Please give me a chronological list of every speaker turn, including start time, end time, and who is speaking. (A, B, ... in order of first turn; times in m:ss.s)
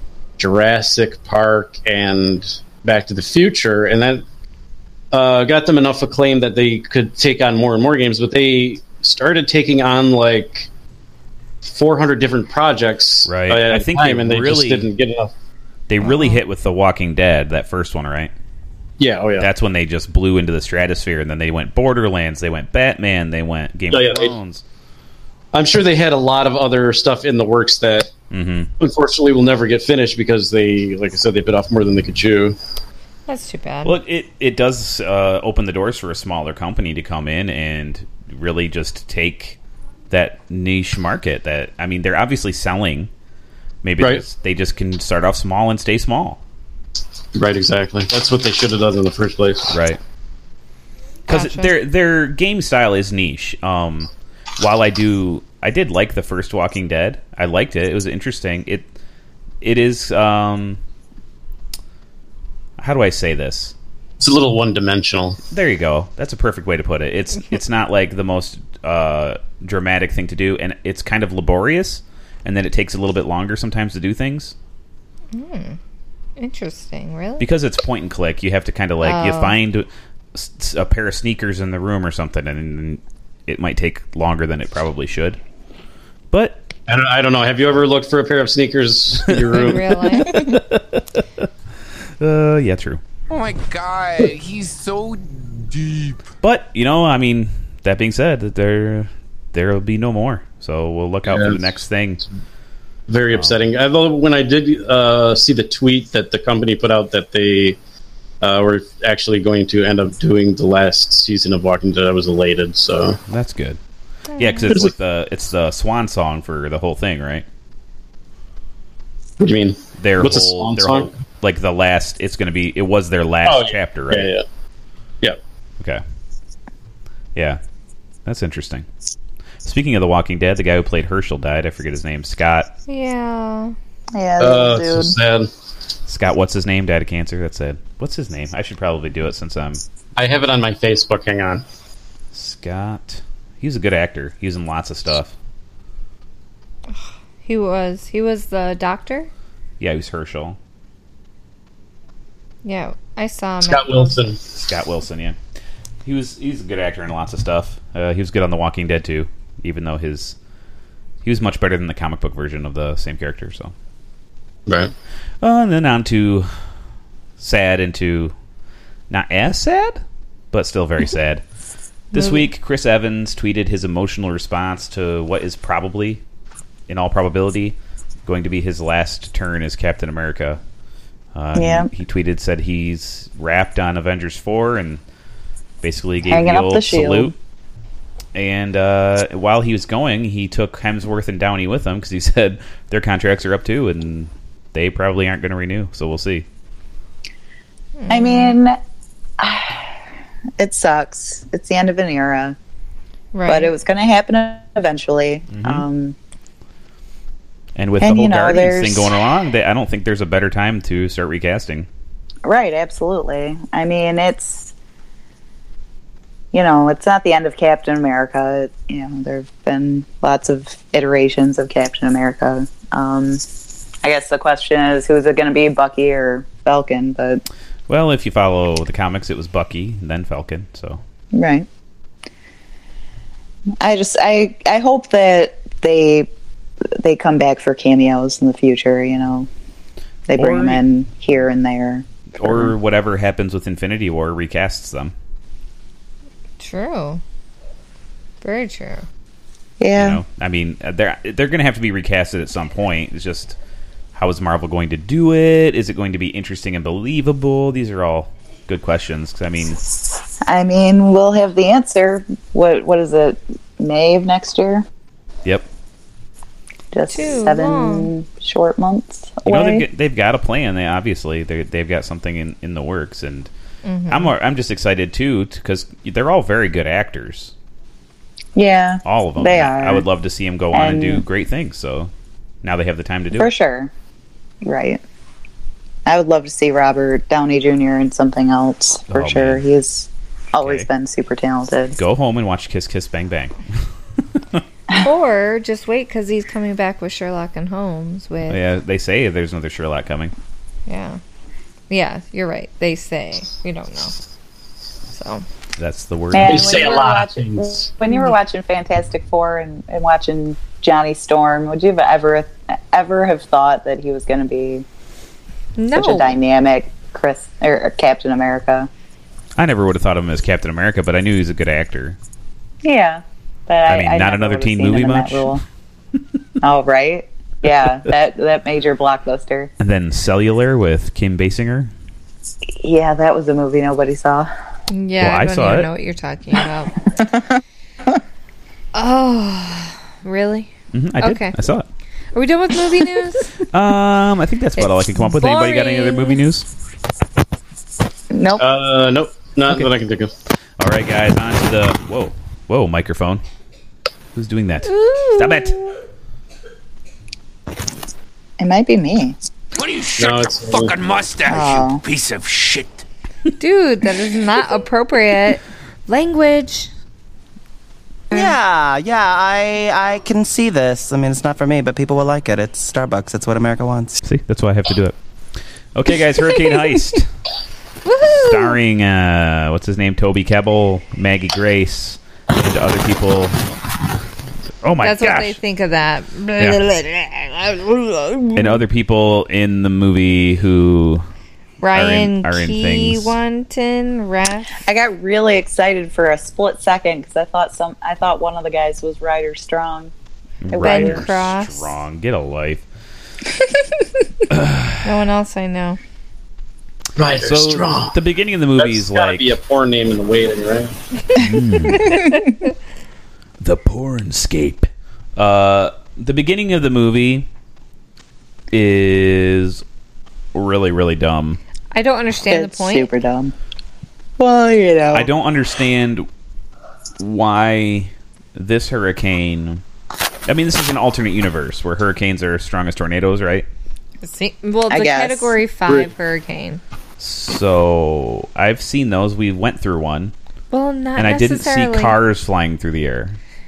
0:00.4-0:04.2 A
0:05.1-0:10.7 A
0:11.6-0:15.3 A
0:13.2-0:14.9 B
0:15.9-0:18.3 B
0:16.0-0:16.4 C
0:19.0-0:19.5 A
0:19.4-0:24.6 B
0:23.9-0:24.3 A
0:25.5-0:28.1 A
0:28.3-0:28.7 B
0:28.8-0:32.6 A
0:33.3-0:34.0 C
0:33.8-0:39.6 B
0:40.1-0:43.1 B
0:43.8-0:46.4 B
0:47.3-0:49.7 A
0:49.7-0:50.0 B
0:51.3-0:51.7 C
0:51.3-0:58.8 B
0:59.6-1:00.8 B
1:02.8-1:03.7 B
1:04.2-1:05.4 A
1:05.5-1:14.5 B
1:15.3-1:15.8 C
1:16.4-1:17.4 C
1:17.4-1:25.4 B
1:19.0-1:19.6 C
1:26.3-1:26.6 B
1:26.9-1:30.0 A
1:29.3-1:31.0 B
1:29.5-1:30.4 C
1:32.2-1:33.0 B
1:33.3-1:36.2 D
1:36.4-1:42.2 B
1:41.3-1:41.6 A
1:43.1-1:47.8 A
1:43.3-1:43.6 B
1:48.4-1:53.2 A
1:53.3-1:53.8 B
1:54.3-1:54.7 C
1:54.4-1:57.4 B
1:59.4-2:01.1 A
2:00.0-2:04.3 B
2:03.4-2:04.4 A
2:08.2-2:08.8 B
2:09.6-2:12.7 B
2:12.9-2:13.7 C
2:14.1-2:15.2 E
2:14.4-2:15.5 A
2:16.1-2:19.8 B
2:20.2-2:21.6 A
2:22.3-2:25.3 B
2:26.9-2:29.3 C
2:29.8-2:30.6 B
2:32.6-2:34.2 C
2:33.7-2:34.4 A
2:34.6-2:35.4 B
2:36.0-2:40.4 B
2:41.2-2:43.7 B
2:44.7-2:44.9 A
2:45.4-2:46.5 B
2:47.4-2:48.3 B
2:49.1-2:51.4 B
2:52.1-2:56.2 B
2:52.1-2:52.4 C
2:56.9-2:57.7 B
2:58.2-3:00.6 B
3:01.3-3:05.0 B
3:01.5-3:01.9 E
3:05.8-3:07.3 B
3:06.2-3:07.3 E
3:08.3-3:16.4 B
3:18.0-3:18.6 C
3:18.1-3:18.8 E
3:19.4-3:19.9 E
3:20.6-3:22.6 E
3:23.3-3:23.7 C
3:23.5-3:26.2 E
3:25.5-3:25.8 B
3:27.8-3:31.9 B
3:28.0-3:29.2 E
3:32.4-3:34.7 E
3:36.5-3:43.4 E
3:44.0-3:47.4 E
3:47.9-3:51.0 B
3:51.3-3:51.7 E
3:53.8-3:56.3 E
3:57.0-3:59.5 E
4:00.3-4:02.7 E
4:00.3-4:00.8 B
4:02.4-4:05.1 B
4:06.6-4:07.2 C
4:08.4-4:09.0 C
4:09.8-4:10.2 E
4:10.0-4:13.6 B
4:14.1-4:19.8 B
4:20.4-4:24.8 E
4:26.9-4:29.8 E
4:27.1-4:28.1 C
4:29.4-4:33.5 B
4:33.8-4:34.3 C
4:34.1-4:37.5 B
4:38.5-4:40.0 E
4:39.0-4:42.1 B
4:40.7-4:41.2 E
4:42.6-4:43.5 B
4:43.3-4:43.9 E
4:44.6-4:45.0 E
4:46.0-4:52.0 E
4:49.1-4:49.6 B
4:50.6-4:50.9 B
4:52.0-4:53.5 B
4:55.0-4:58.6 C
4:58.5-5:00.3 B
5:00.9-5:01.2 C
5:01.9-5:04.1 C
5:05.1-5:05.4 C
5:05.8-5:06.9 B
5:06.3-5:14.8 E
5:06.4-5:07.9 A
5:15.8-5:16.3 C
5:15.9-5:18.9 E
5:19.6-5:22.2 B
5:22.8-5:25.6 E
5:23.9-5:25.6 B
5:26.6-5:29.7 E
5:29.8-5:31.9 B
5:32.8-5:34.5 E
5:34.9-5:36.9 C
5:35.2-5:35.9 B
5:37.2-5:37.6 E
5:38.9-5:41.5 C
5:40.9-5:41.8 B
5:42.3-5:43.5 C
5:43.7-5:46.7 B
5:44.8-5:46.4 C
5:48.3-5:48.6 E
5:48.6-5:50.3 A
5:50.8-5:53.4 B
5:54.3-5:55.8 B
5:54.9-5:55.9 C
5:58.6-5:59.4 E
5:59.7-6:03.0 D
6:00.2-6:00.9 A
6:01.4-6:02.0 E
6:03.6-6:06.9 C
6:08.3-6:14.2 F
6:14.2-6:15.2 B
6:15.9-6:17.3 B
6:18.0-6:18.8 C
6:18.3-6:23.6 B
6:24.8-6:25.6 B
6:25.0-6:28.8 C
6:28.5-6:31.2 B
6:31.8-6:34.8 C
6:31.9-6:33.3 B
6:34.8-6:40.1 E
6:40.6-6:42.8 B
6:40.7-6:41.2 E
6:40.8-6:41.9 C
6:44.5-6:45.0 B
6:45.0-6:46.0 C
6:47.2-6:48.1 A
6:47.4-6:49.6 B
6:48.8-6:50.9 A
6:51.3-6:52.3 B
6:52.0-6:52.4 C
6:53.6-6:57.5 B
6:58.7-6:59.8 B
7:00.5-7:01.6 B
7:01.9-7:03.1 C
7:02.5-7:03.5 E
7:04.4-7:05.3 E
7:05.1-7:06.3 B
7:07.2-7:09.8 B
7:10.5-7:13.6 B
7:14.2-7:16.8 C
7:14.9-7:15.6 E
7:17.2-7:20.3 B
7:20.7-7:22.2 C
7:21.2-7:23.4 B